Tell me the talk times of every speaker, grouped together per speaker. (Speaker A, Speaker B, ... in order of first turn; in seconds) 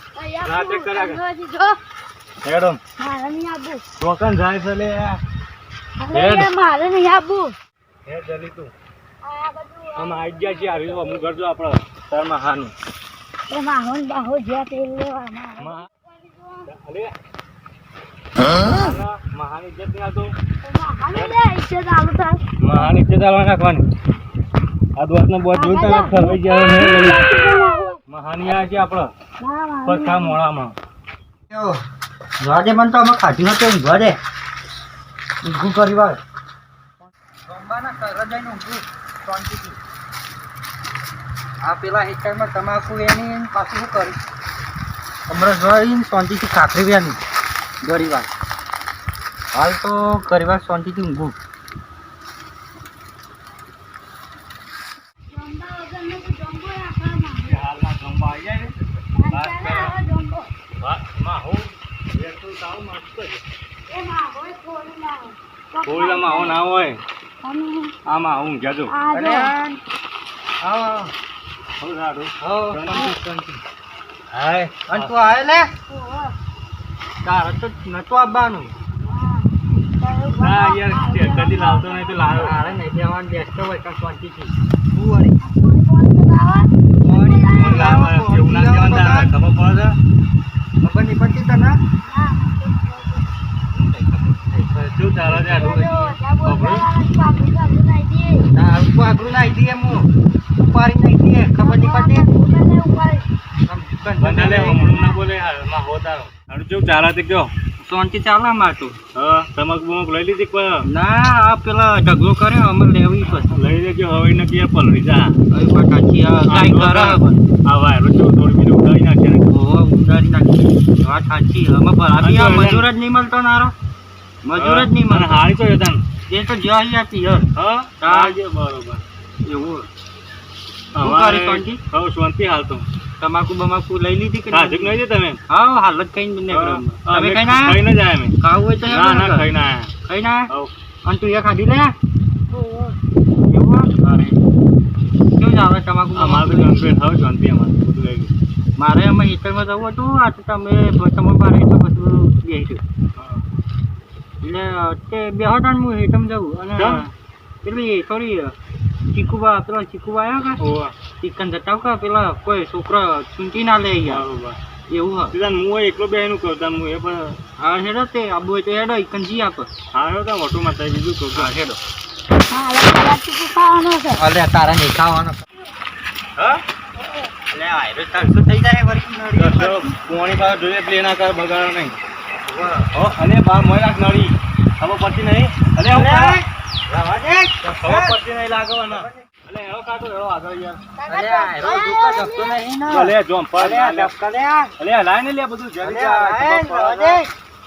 Speaker A: 0.1-1.8, 3.0-3.8, 6.0-7.6, 9.2-11.3, 13.5-16.7, 18.6-18.9, 20.6-22.9, 25.5-28.0, 29.4-30.4, 55.2-57.6, 59.1-60.5, 63.9-66.6, 67.4-67.9, 68.9-69.5, 75.9-76.3, 79.0-82.4, 85.4-88.0, 92.0-93.2, 95.5-98.5, 101.6-103.2, 104.7-105.2, 142.5-142.9, 172.5-174.2, 191.0-192.6
Speaker B: 0.4-1.2, 2.4-2.8, 4.0-5.2, 6.1-6.5, 8.1-8.7, 9.9-12.7, 15.6-15.9, 16.6-17.1, 18.6-20.3, 21.1-21.4, 22.6-23.9, 24.9-27.3, 28.1-29.1, 29.8-30.7, 57.5-60.0, 60.8-63.5, 65.8-67.0, 68.0-69.0, 71.8-73.1, 74.3-75.1, 80.3-82.8, 87.5-90.0, 94.9-95.8, 96.4-96.8, 104.2-107.5, 109.1-110.8, 113.4-115.4, 116.5-119.5, 122.2-122.9, 124.6-126.0, 127.5-129.0, 130.9-132.9, 134.5-135.4, 136.5-139.9, 146.1-148.3, 153.1-153.4, 156.8-157.1, 160.6-160.9, 164.1-164.6, 165.3-167.4, 169.9-171.5, 176.4-176.6, 179.3-182.0, 182.9-186.4, 187.8-190.8, 192.9-194.1, 194.8-197.2
Speaker C: 31.5-31.8, 32.4-34.2, 35.4-36.2, 37.4-39.8, 41.6-44.2, 45.3-47.2, 47.8-48.3, 49.5-51.4, 69.1-69.8, 70.6-71.1, 72.4-73.6, 74.9-75.7, 77.2-78.7, 82.3-85.4, 87.0-89.3, 90.8-91.8, 93.7-96.7, 98.5-102.5, 103.6-104.8, 107.8-109.0, 110.8-113.5, 115.5-117.4, 119.5-123.7, 124.4-125.4, 126.2-128.4, 129.4-129.9, 131.0-131.8, 133.2-137.8, 138.4-139.5, 140.0-140.5, 141.0-141.9, 143.5-144.4, 145.4-146.9, 148.8-152.8, 154.4-157.1, 157.6-158.6, 159.1-160.6, 161.2-164.2, 164.9-165.3, 167.6-169.7, 171.3-171.8, 174.2-175.4, 177.5-179.9, 182.4-182.9, 185.9-188.2, 188.9-189.2, 191.1-194.7, 195.8-197.3